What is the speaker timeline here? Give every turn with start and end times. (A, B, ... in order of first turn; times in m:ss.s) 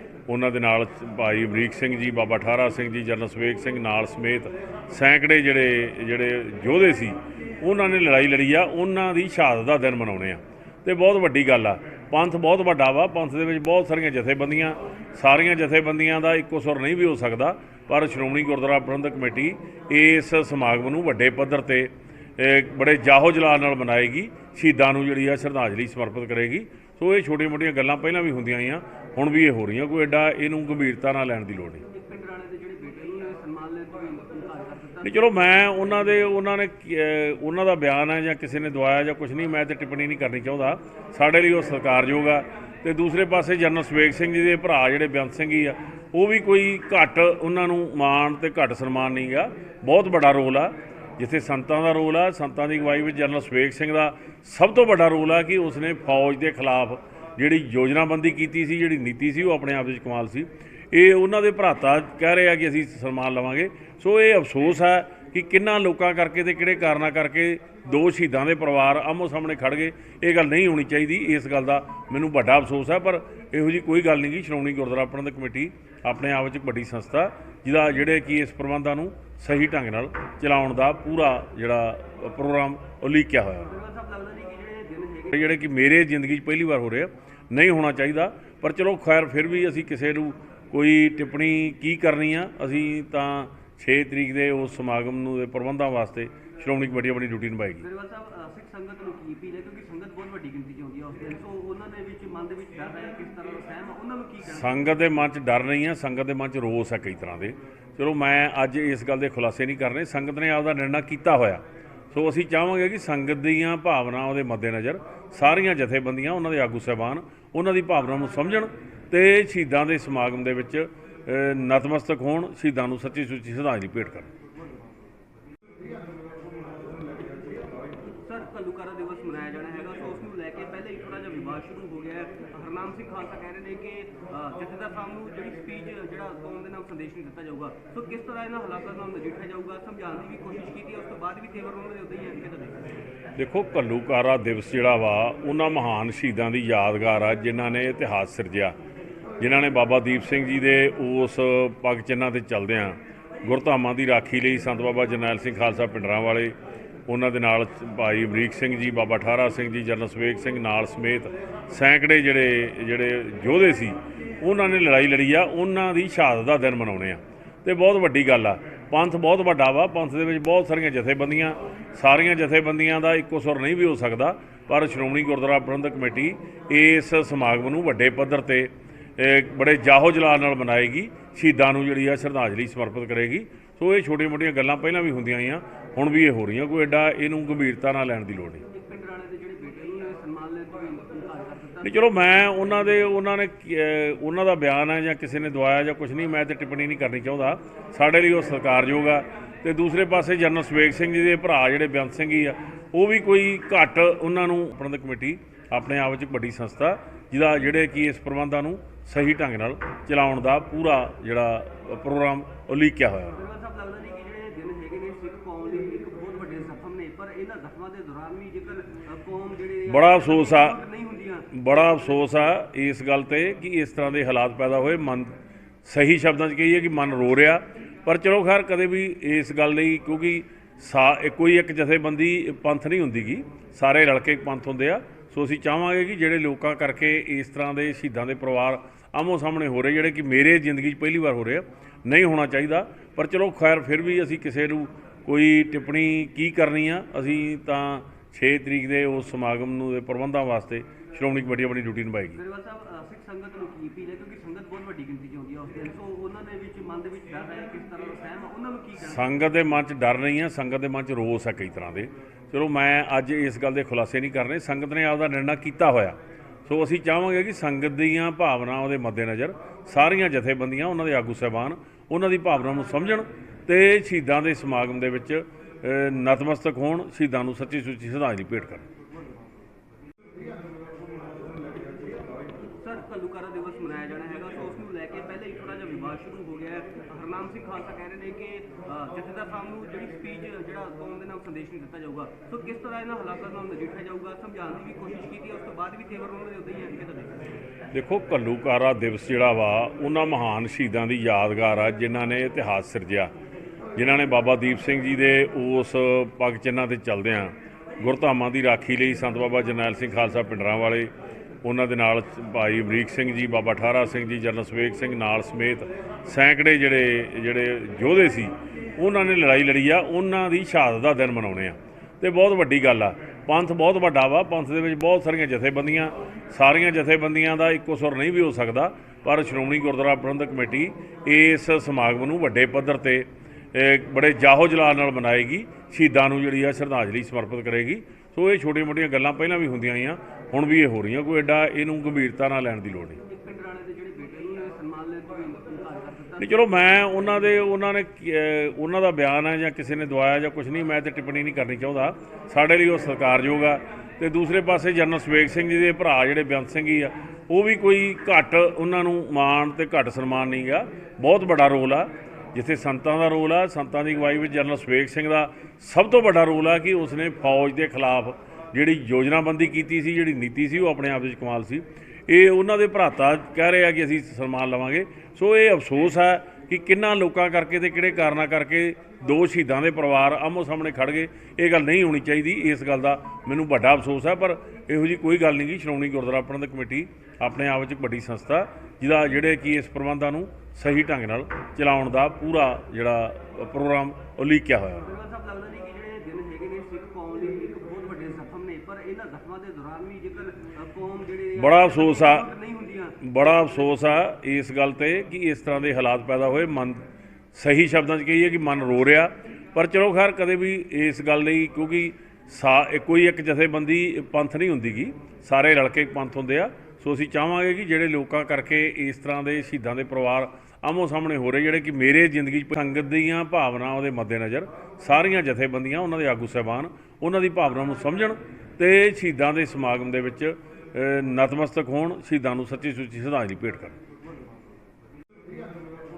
0:00.3-0:31.8 A
0:31.9-0:35.4 B
0:35.0-1:23.8 A
1:23.7-1:25.6 B
1:25.3-1:37.8 A
1:37.8-1:44.7 B
1:44.4-2:04.3 A
2:08.2-2:22.8 B
2:23.4-2:28.8 A
2:29.4-2:36.6 A
2:37.1-3:08.6 A
3:08.7-3:12.4 B
3:11.8-3:33.4 A
3:33.3-3:42.3 B
3:39.9-3:40.8 A
3:41.5-4:12.4 A
4:12.3-4:19.3 B
4:19.0-4:38.9 A
4:42.8-4:57.4 B
4:57.9-5:03.3 A
5:04.0-5:11.1 A
5:11.6-5:43.2 A
5:43.2-5:47.2 B
5:46.4-6:35.1 A
6:35.0-6:43.9 B
6:41.6-6:42.5 A
6:43.2-7:14.0 A